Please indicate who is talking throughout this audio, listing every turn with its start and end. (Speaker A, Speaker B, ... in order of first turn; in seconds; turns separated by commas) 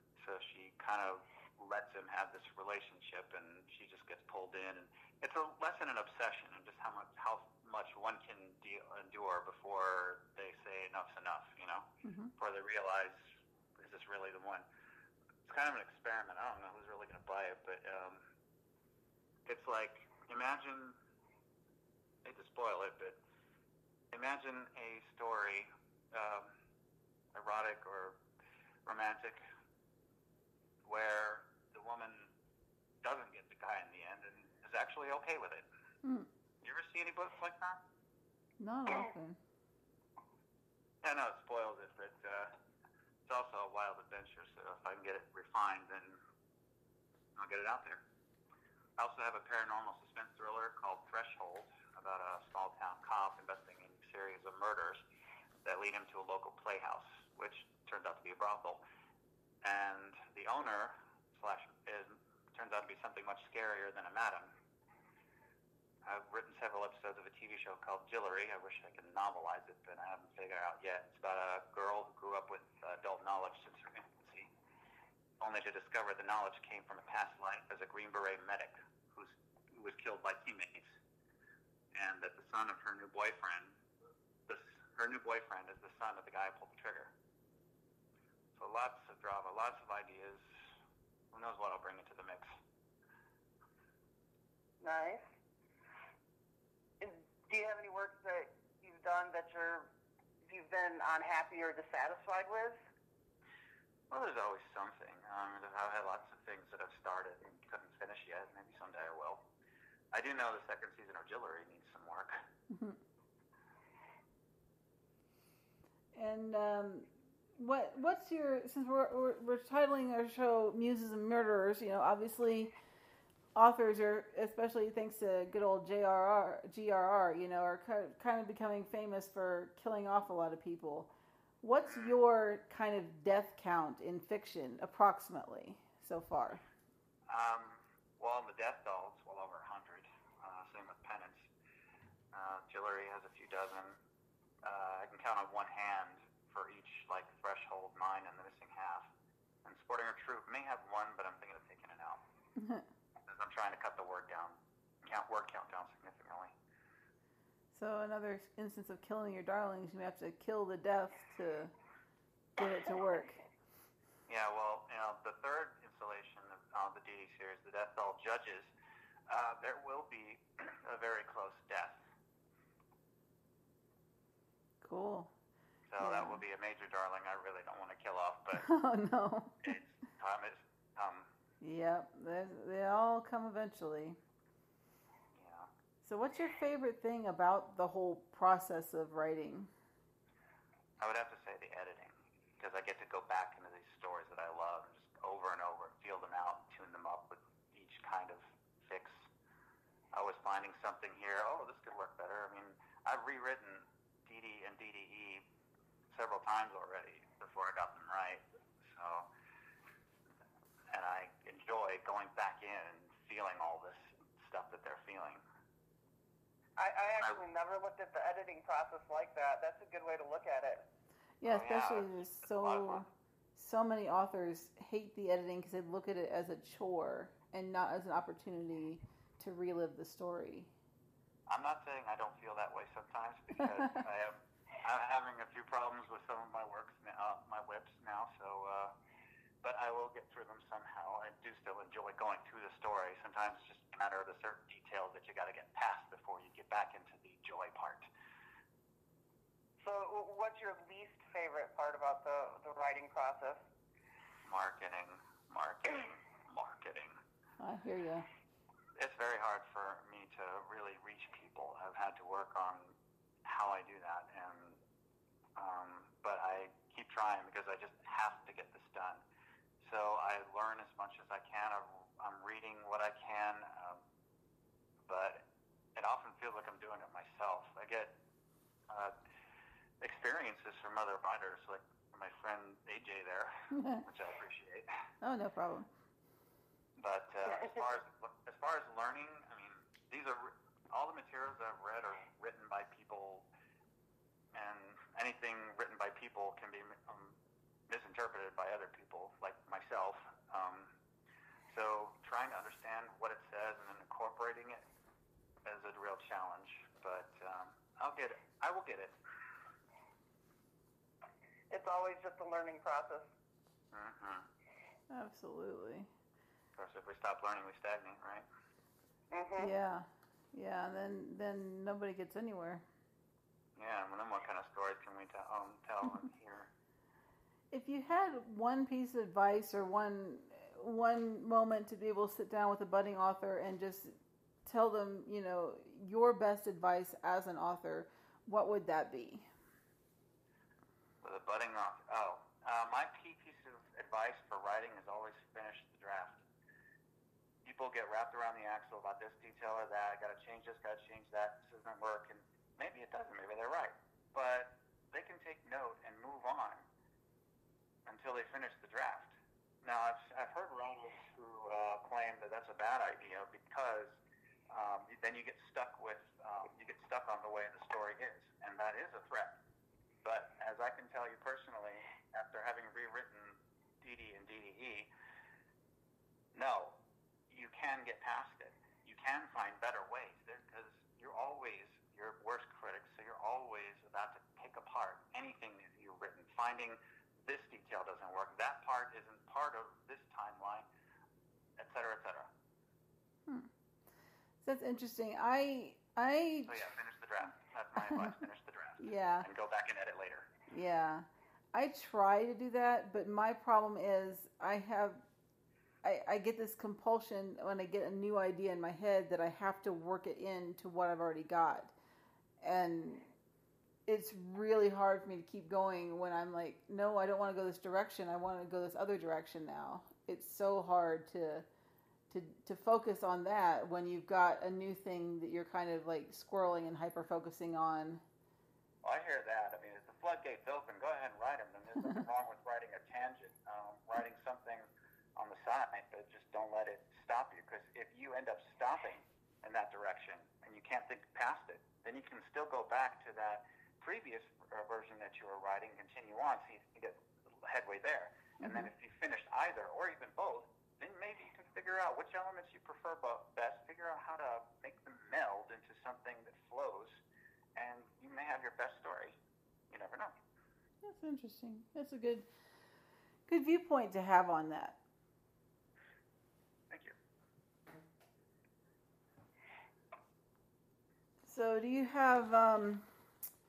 Speaker A: 0.2-11.8, Speaker B: 12.0-12.3, Speaker A: 12.4-13.2, Speaker A: 13.8-14.6, Speaker A: 15.4-18.2, Speaker A: 19.4-20.9, Speaker A: 22.2-23.2, Speaker A: 24.1-26.5, Speaker A: 27.3-28.2, Speaker A: 28.9-29.4, Speaker A: 30.8-32.3, Speaker A: 33.0-35.6, Speaker B: 36.0-36.3, Speaker A: 36.6-37.8, Speaker B: 38.6-39.4, Speaker A: 41.0-42.5, Speaker A: 43.3-46.2, Speaker A: 47.4-48.0, Speaker A: 49.0-55.0, Speaker A: 55.6-58.8, Speaker A: 59.6-64.5, Speaker A: 66.0-74.5, Speaker A: 75.4-81.0, Speaker A: 81.9-83.8, Speaker A: 84.5-87.1, Speaker A: 88.5-90.4, Speaker A: 91.3-92.5, Speaker C: 94.8-95.2, Speaker C: 97.0-99.9, Speaker C: 100.5-102.8, Speaker A: 104.1-109.4, Speaker A: 110.1-112.4, Speaker B: 112.7-113.0, Speaker B: 116.1-122.7, Speaker B: 123.5-131.1, Speaker B: 131.6-136.6, Speaker A: 131.9-132.1, Speaker A: 137.3-141.5, Speaker A: 142.3-144.0, Speaker A: 144.6-149.1, Speaker A: 149.6-152.2, Speaker B: 152.6-152.8, Speaker A: 153.3-156.5, Speaker B: 157.7-161.7, Speaker B: 162.6-163.4, Speaker A: 164.3-168.7, Speaker A: 169.3-172.0, Speaker B: 174.8-175.3, Speaker A: 175.9-178.7, Speaker B: 176.0-176.4, Speaker B: 178.6-179.7, Speaker A: 179.6-181.3, Speaker B: 181.6-184.2, Speaker A: 185.3-185.7, Speaker B: 186.0-189.7, Speaker A: 191.0-199.3, Speaker A: 200.1-205.4, Speaker A: 206.1-209.3, Speaker A: 210.9-215.4, Speaker C: 216.8-220.8, Speaker B: 221.4-230.7, Speaker A: 221.4-223.0, Speaker A: 231.5-238.9, Speaker A: 239.6-248.1, Speaker C: 249.8-253.6, Speaker A: 254.4-257.1, Speaker B: 257.6-258.3, Speaker A: 259.0-262.9, Speaker A: 263.4-264.8, Speaker A: 265.6-269.2, Speaker A: 269.8-274.0, Speaker A: 275.1-275.4, Speaker A: 275.9-278.1, Speaker A: 280.0-284.9, Speaker B: 283.7-284.0, Speaker B: 285.2-285.9, Speaker A: 287.0-293.5, Speaker A: 294.5-297.4, Speaker A: 297.9-300.9, Speaker A: 301.7-304.8, Speaker A: 305.6-309.1, Speaker C: 311.7-313.2, Speaker A: 313.9-314.4, Speaker B: 315.1-316.1, Speaker A: 316.8-318.4, Speaker C: 319.3-319.7, Speaker B: 319.6-322.8, Speaker A: 323.8-326.7, Speaker B: 327.7-334.1, Speaker B: 334.6-339.5, Speaker A: 341.2-346.4, Speaker A: 347.6-356.8, Speaker A: 358.1-369.6, Speaker A: 370.2-375.1, Speaker A: 376.5-377.0, Speaker A: 377.5-390.9, Speaker A: 391.8-392.5, Speaker B: 394.6-396.8, Speaker A: 396.6-400.5, Speaker B: 399.0-399.5, Speaker B: 400.7-405.2, Speaker B: 406.0-411.9, Speaker B: 412.6-413.3, Speaker B: 414.1-421.6, Speaker B: 422.3-428.2, Speaker A: 429.0-457.2, Speaker B: 448.6-448.9, Speaker A: 457.8-459.4, Speaker A: 459.9-460.3, Speaker B: 461.0-462.5, Speaker B: 463.5-465.0, Speaker A: 466.9-467.1, Speaker B: 471.4-473.0